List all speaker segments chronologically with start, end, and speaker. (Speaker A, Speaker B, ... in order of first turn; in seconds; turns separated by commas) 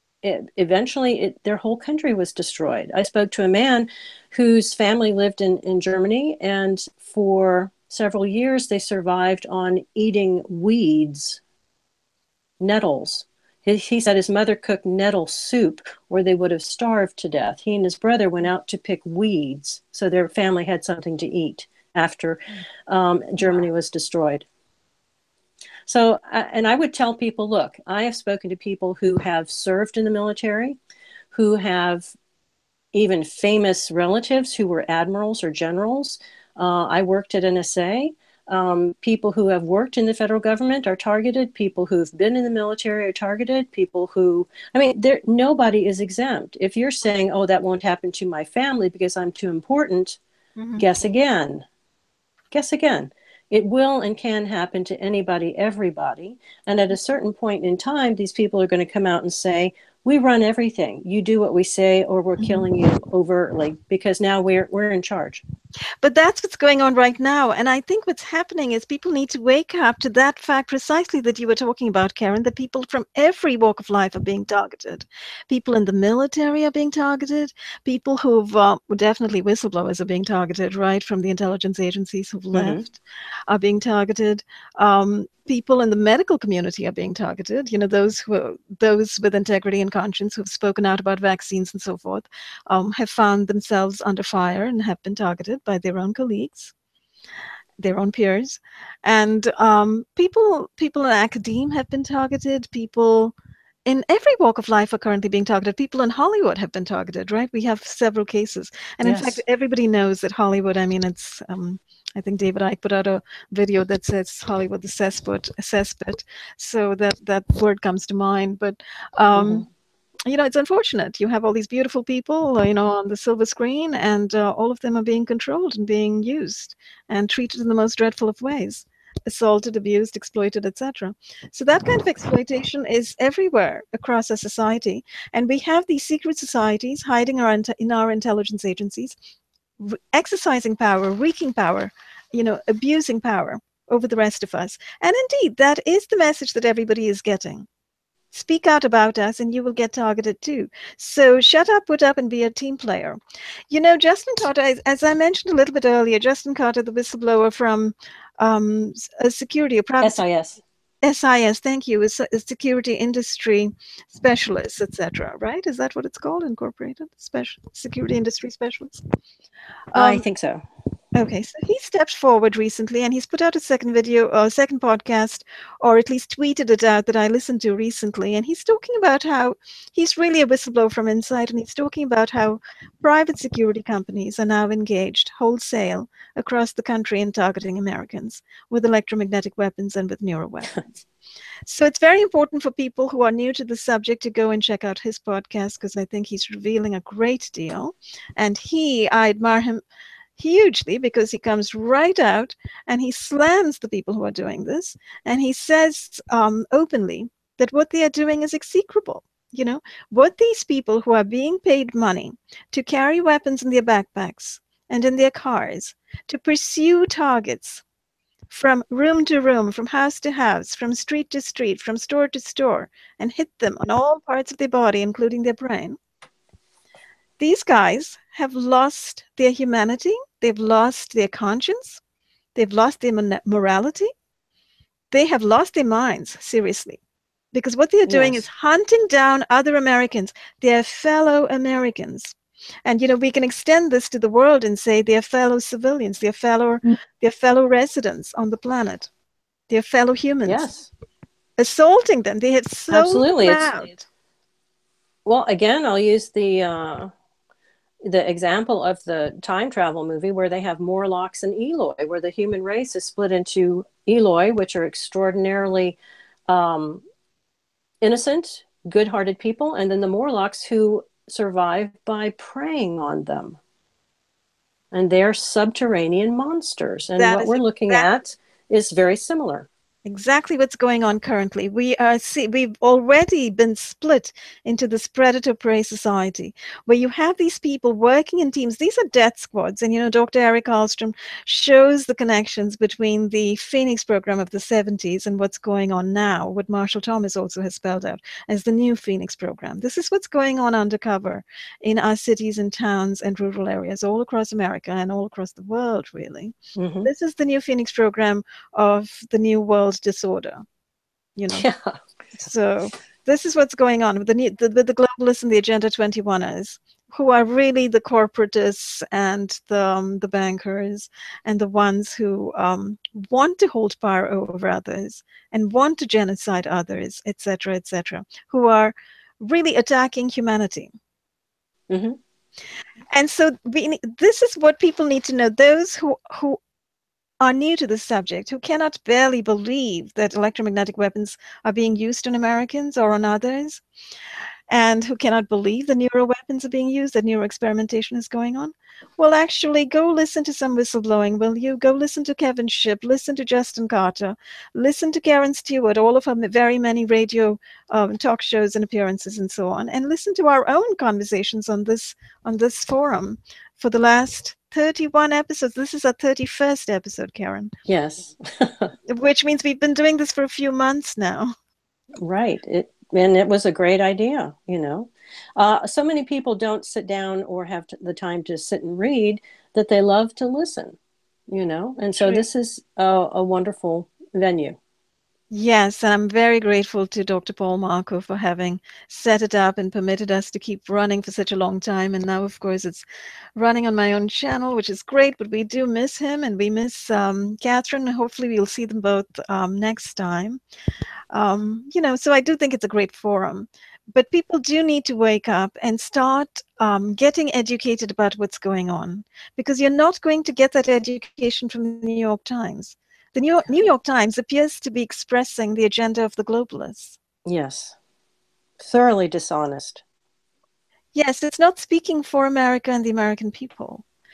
Speaker A: 0.2-11.4, Speaker A: 12.6-24.5, Speaker A: 25.9-30.8, Speaker A: 31.3-32.1, Speaker A: 32.9-50.2, Speaker B: 50.6-50.9, Speaker A: 50.8-51.6, Speaker A: 52.5-65.4, Speaker B: 62.4-62.7, Speaker B: 66.0-96.7, Speaker A: 82.5-82.8, Speaker B: 97.8-103.3, Speaker B: 103.9-119.7, Speaker A: 109.0-109.4, Speaker A: 119.3-119.7, Speaker B: 120.3-139.2, Speaker B: 139.8-147.7, Speaker B: 148.3-153.2, Speaker B: 153.7-160.2, Speaker A: 160.0-160.6, Speaker B: 161.0-169.0, Speaker B: 169.9-170.2, Speaker A: 169.9-170.6, Speaker B: 171.1-191.0, Speaker B: 191.7-199.8, Speaker B: 200.4-217.8, Speaker B: 218.5-226.0, Speaker B: 227.4-232.0, Speaker B: 232.6-234.1, Speaker B: 235.1-237.0, Speaker B: 237.5-249.1, Speaker A: 238.1-238.5, Speaker B: 249.7-250.7, Speaker A: 250.4-250.9, Speaker B: 251.6-254.0, Speaker A: 252.9-253.9, Speaker A: 255.2-257.1, Speaker A: 258.0-267.0, Speaker A: 268.0-273.6, Speaker A: 274.9-279.7, Speaker B: 277.2-278.1, Speaker B: 280.1-310.6, Speaker A: 306.8-307.1, Speaker B: 311.4-311.7, Speaker A: 311.5-312.0, Speaker B: 312.4-330.9, Speaker A: 331.9-332.2, Speaker B: 333.1-336.6, Speaker B: 337.4-343.8, Speaker B: 344.7-367.7, Speaker A: 367.9-368.9, Speaker B: 369.1-371.5, Speaker A: 372.2-381.0, Speaker A: 381.5-384.8, Speaker B: 382.2-382.4, Speaker B: 385.5-393.0, Speaker B: 393.6-400.6, Speaker B: 401.3-417.2, Speaker A: 417.4-418.0, Speaker A: 418.8-420.0, Speaker B: 421.1-424.1